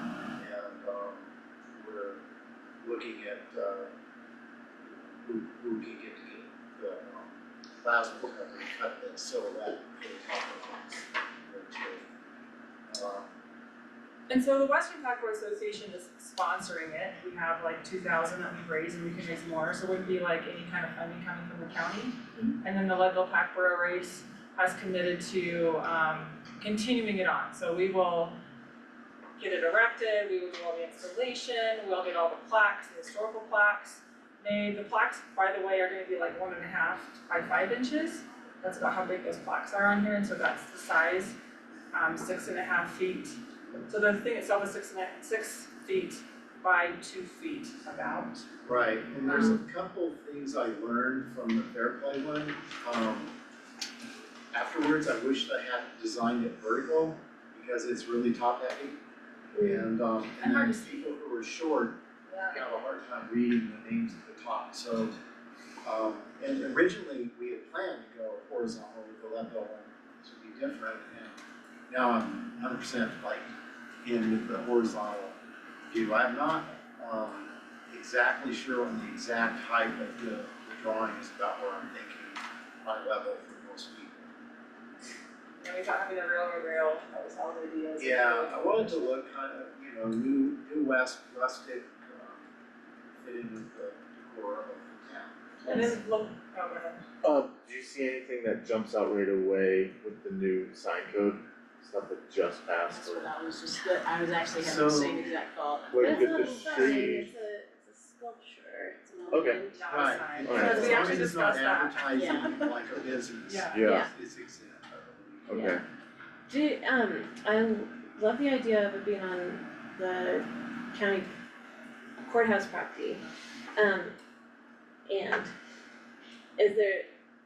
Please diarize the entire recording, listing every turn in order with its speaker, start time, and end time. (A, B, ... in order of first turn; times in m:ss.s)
0:00.4-0:02.2 A
0:02.8-0:03.9 A
0:04.8-0:12.0 A
0:12.9-0:13.3 A
0:14.3-0:28.4 B
0:29.4-0:41.4 B
0:41.9-0:48.4 B
0:48.6-0:53.3 A
0:49.2-0:49.6 B
0:54.5-0:59.0 A
0:59.5-0:59.9 C
0:59.6-1:02.0 A
1:00.4-1:00.8 C
1:02.3-1:02.6 B
1:02.5-1:05.1 A
1:05.8-1:11.4 A
1:11.9-1:13.5 A
1:14.0-1:15.4 A
1:15.9-1:24.3 A
1:25.6-1:29.0 B
1:28.0-1:32.4 A
1:33.2-1:36.0 A
1:35.6-1:37.0 B
1:37.2-1:43.3 D
1:42.8-1:46.1 E
1:44.6-1:45.4 A
1:45.9-1:47.3 D
1:45.9-1:51.1 C
1:49.3-1:49.6 D
1:49.7-1:52.2 B
1:49.9-1:55.7 A
1:50.5-1:51.0 D
1:52.1-1:52.5 E
1:53.5-1:53.9 B
1:53.7-1:54.0 D
1:53.8-1:54.1 C
1:55.4-1:55.8 D
1:55.5-1:55.8 C
1:56.5-2:01.3 C
2:02.2-2:03.2 C
2:03.8-2:04.2 C
2:05.1-2:05.5 C
2:06.6-2:07.0 C